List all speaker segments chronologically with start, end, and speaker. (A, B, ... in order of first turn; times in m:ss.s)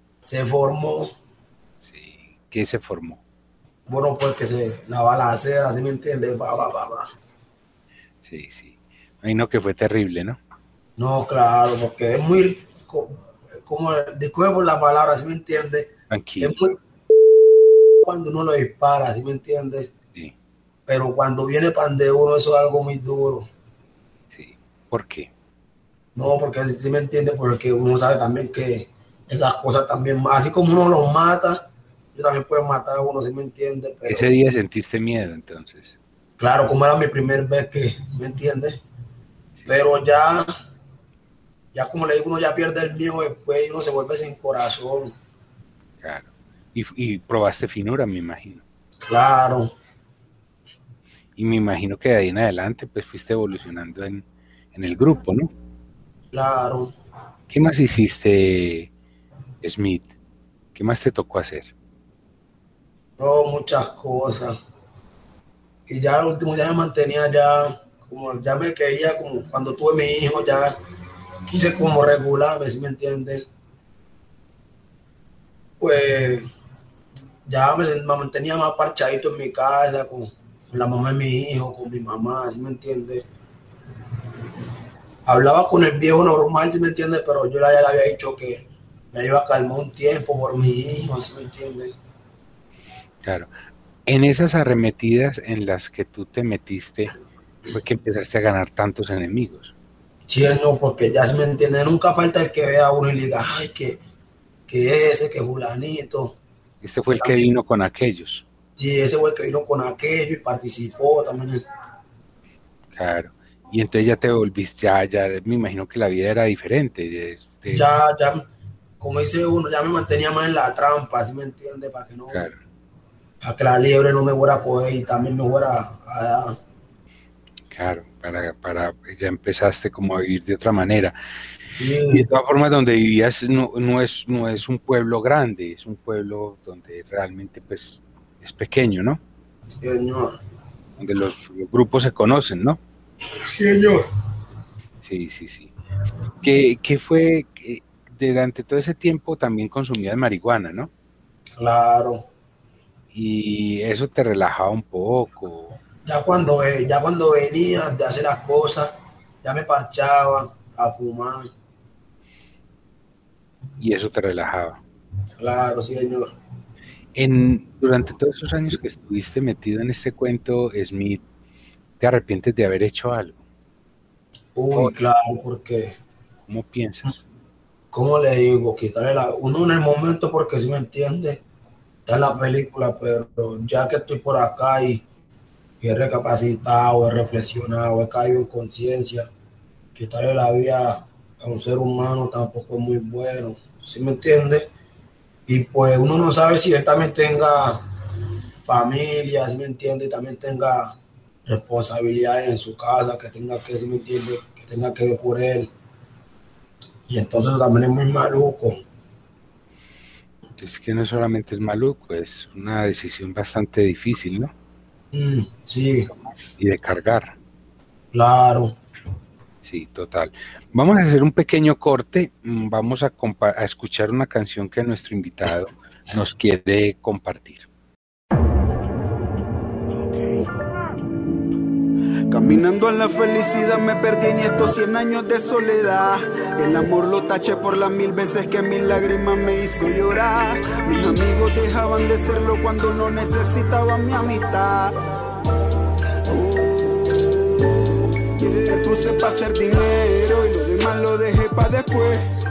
0:00.2-0:01.1 A
0:01.8-0:03.2 B
0:03.9-0:07.1 A
0:08.2-0:10.4 B
0:11.0-0:16.8 A
0:16.1-0:16.6 B
0:18.0-0:19.9 A
0:20.9-0:23.5 A
0:24.3-0:25.3 B
0:26.1-0:34.3 A
0:34.0-0:36.0 B
0:36.4-0:38.8 A
0:39.7-0:40.5 A
0:41.7-0:45.2 A
0:46.0-0:48.6 B
0:49.0-0:49.7 A
0:51.4-0:55.5 B
0:56.3-0:56.9 A
0:57.5-0:58.9 B
0:59.6-1:00.1 B
1:00.7-1:01.7 B
1:03.2-1:04.5 A
1:05.9-1:10.7 A
1:11.5-1:13.4 A
1:15.8-1:16.4 A
1:17.5-1:23.2 A
1:25.3-1:31.9 A
1:33.2-1:33.5 B
1:34.0-1:37.2 B
1:37.7-1:39.7 B
1:40.3-1:44.0 A
1:44.7-1:46.4 A
1:46.8-1:48.4 B
1:47.1-1:47.5 A
1:48.8-1:51.6 A
1:52.9-1:57.9 B
1:57.7-1:58.4 A
1:59.0-2:02.5 A
2:02.3-2:02.6 B
2:03.4-2:06.6 A
2:07.7-2:11.1 B
2:11.8-2:12.3 A
2:12.1-2:19.2 B
2:19.8-2:20.4 A
2:21.0-2:22.8 B
2:23.4-2:24.0 A
2:25.0-2:25.7 B
2:26.4-2:30.9 B
2:31.6-2:32.3 A
2:33.1-2:35.8 B
2:36.0-2:41.5 A
2:43.8-2:44.8 B
2:45.4-2:46.3 A
2:47.2-2:51.2 B
2:52.0-2:53.4 B
2:54.5-2:56.0 A
2:56.5-2:57.2 B
2:57.9-3:01.4 A
3:02.0-3:05.0 A
3:05.8-3:09.3 A
3:09.9-3:14.6 A
3:15.5-3:17.8 A
3:18.6-3:25.7 A
3:27.1-3:28.8 A
3:30.6-3:34.5 B
3:35.1-3:36.1 A
3:36.6-3:37.4 B
3:38.1-3:38.8 A
3:39.6-3:47.7 B
3:52.3-4:05.0 C
4:06.2-4:07.3 C
4:08.4-4:12.2 C